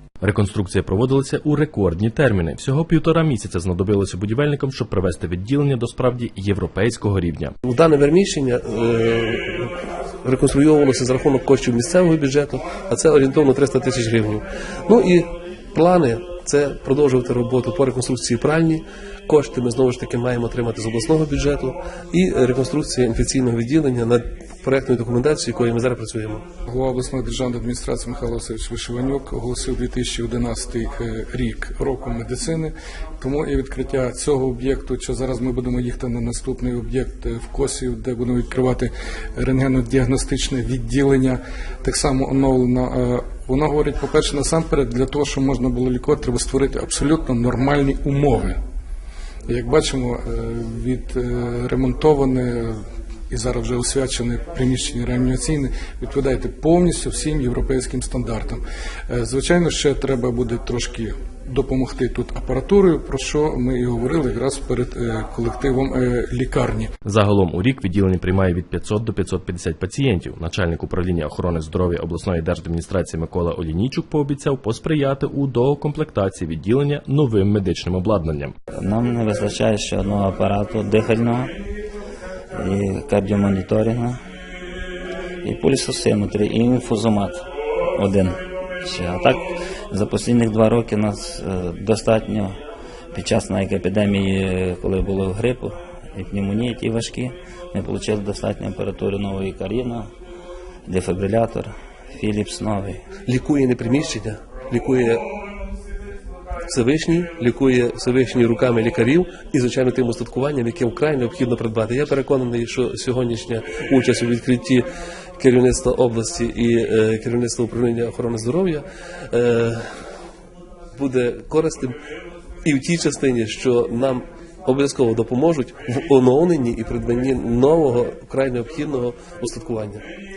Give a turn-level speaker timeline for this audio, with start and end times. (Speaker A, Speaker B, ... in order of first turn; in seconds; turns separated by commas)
Speaker A: 0.2-7.5, Speaker B: 7.7-9.7, Speaker B: 10.2-26.4, Speaker C: 26.7-48.6, Speaker C: 49.5-66.9, Speaker A: 67.0-78.5, Speaker D: 78.8-81.5, Speaker D: 82.5-84.2, Speaker D: 85.4-87.4, Speaker D: 87.9-92.5, Speaker D: 93.1-100.1, Speaker D: 100.9-103.0, Speaker B: 103.2-105.2, Speaker B: 106.7-114.8, Speaker B: 115.4-119.8, Speaker B: 121.0-121.9, Speaker B: 122.6-130.0